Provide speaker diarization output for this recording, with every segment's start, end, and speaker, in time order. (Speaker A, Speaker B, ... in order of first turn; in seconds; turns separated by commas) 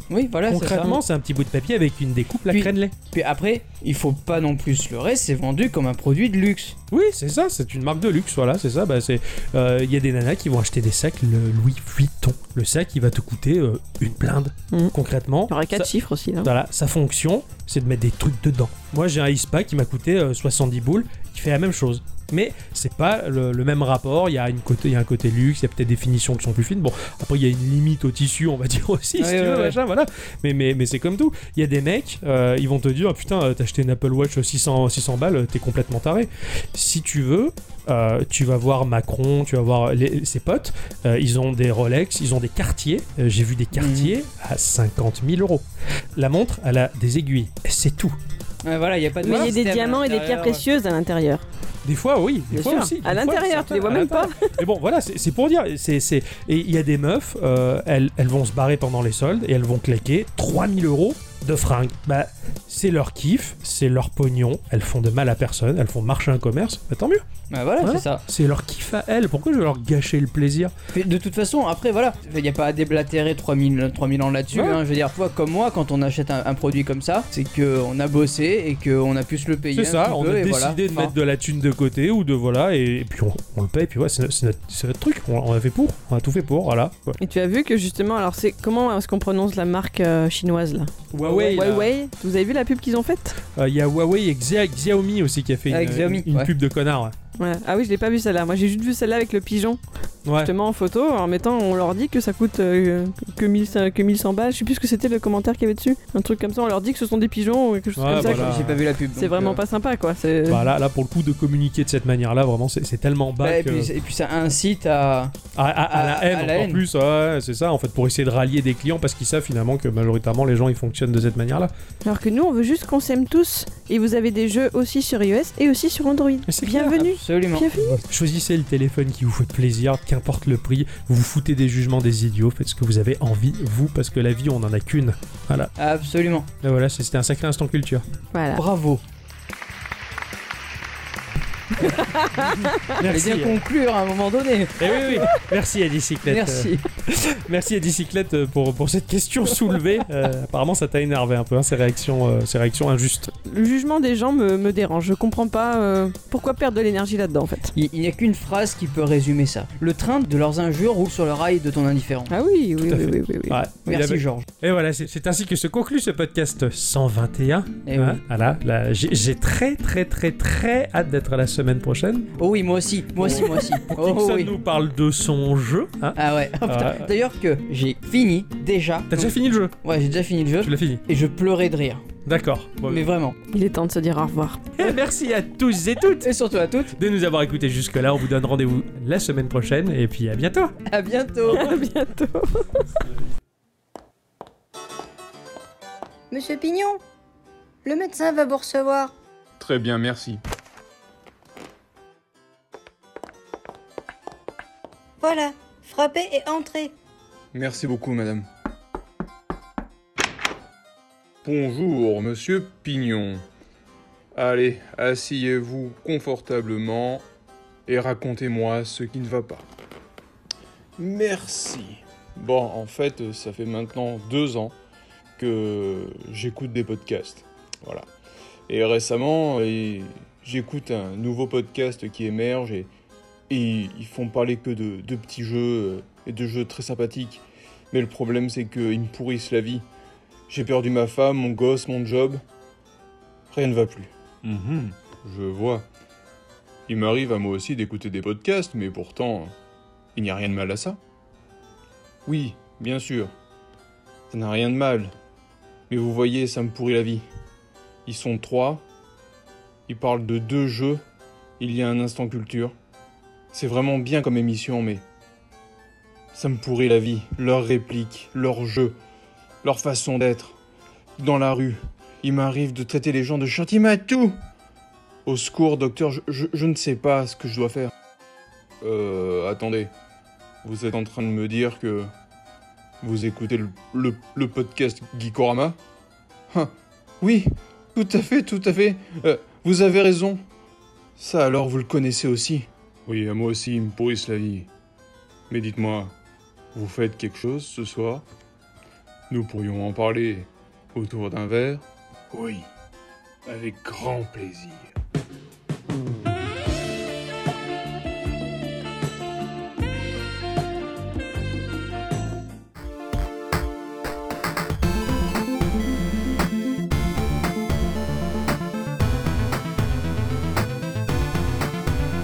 Speaker A: 0.1-1.0, Speaker B: 0.5-2.9, Speaker A: 2.5-6.8, Speaker B: 6.9-15.9, Speaker C: 15.5-16.5, Speaker B: 16.4-45.6, Speaker A: 29.2-29.8, Speaker A: 43.7-44.1, Speaker B: 46.2-48.1, Speaker A: 48.6-50.6, Speaker C: 49.2-51.4, Speaker B: 51.9-67.2, Speaker C: 52.5-54.5, Speaker A: 67.5-68.2, Speaker B: 67.8-70.7, Speaker A: 70.9-81.1, Speaker B: 74.5-74.8, Speaker B: 79.7-87.2, Speaker C: 87.2-93.4, Speaker B: 91.1-91.9, Speaker A: 91.2-91.6, Speaker B: 93.6-97.2, Speaker A: 95.7-96.5, Speaker C: 97.4-99.8, Speaker B: 100.3-100.5, Speaker C: 100.4-110.7, Speaker B: 108.0-108.8, Speaker A: 108.1-109.6, Speaker B: 110.5-113.9, Speaker A: 113.4-115.4, Speaker B: 115.5-121.7, Speaker A: 115.9-116.8, Speaker C: 122.0-128.0, Speaker B: 126.5-127.1, Speaker A: 126.9-128.0, Speaker B: 128.1-135.7, Speaker A: 135.8-136.5, Speaker B: 136.6-138.1, Speaker C: 138.3-138.6, Speaker A: 138.6-139.0, Speaker C: 141.8-143.0, Speaker B: 142.3-143.6, Speaker A: 143.0-145.3, Speaker B: 144.8-153.3, Speaker A: 146.2-146.8, Speaker C: 153.5-157.7, Speaker A: 157.7-162.3, Speaker C: 162.3-163.6, Speaker B: 162.8-172.3, Speaker A: 163.9-164.5, Speaker A: 167.9-168.2, Speaker A: 172.4-174.6, Speaker B: 173.2-177.1, Speaker A: 176.2-182.1, Speaker B: 179.1-179.8, Speaker B: 180.6-181.0, Speaker B: 182.2-183.1, Speaker A: 182.8-183.4, Speaker C: 183.5-184.8, Speaker B: 184.8-186.3, Speaker A: 186.2-186.9, Speaker B: 186.9-190.8, Speaker A: 190.9-191.8, Speaker C: 191.5-192.8, Speaker D: 196.3-197.0, Speaker D: 197.9-199.1, Speaker E: 199.6-200.4, Speaker D: 205.2-206.9, Speaker E: 207.5-208.5, Speaker E: 211.4-213.4, Speaker E: 214.3-217.2, Speaker E: 217.9-219.7, Speaker E: 221.0-224.8, Speaker E: 225.4-228.1, Speaker E: 228.7-232.9, Speaker E: 233.5-239.8, Speaker E: 240.5-242.4, Speaker E: 243.5-245.9, Speaker E: 246.9-249.5, Speaker E: 250.2-251.0, Speaker E: 252.3-253.3, Speaker E: 254.3-255.1, Speaker E: 255.9-257.2, Speaker E: 258.1-258.9, Speaker E: 259.9-261.0, Speaker E: 261.6-262.7, Speaker E: 263.5-265.0, Speaker E: 266.3-269.0, Speaker E: 269.6-270.6, Speaker E: 271.2-274.4, Speaker E: 275.2-277.9, Speaker E: 278.8-279.9, Speaker E: 280.6-282.1, Speaker E: 283.0-285.8, Speaker E: 286.5-290.4, Speaker E: 291.2-294.7, Speaker E: 295.5-296.1, Speaker E: 296.7-298.2, Speaker E: 299.3-302.7, Speaker E: 303.5-304.9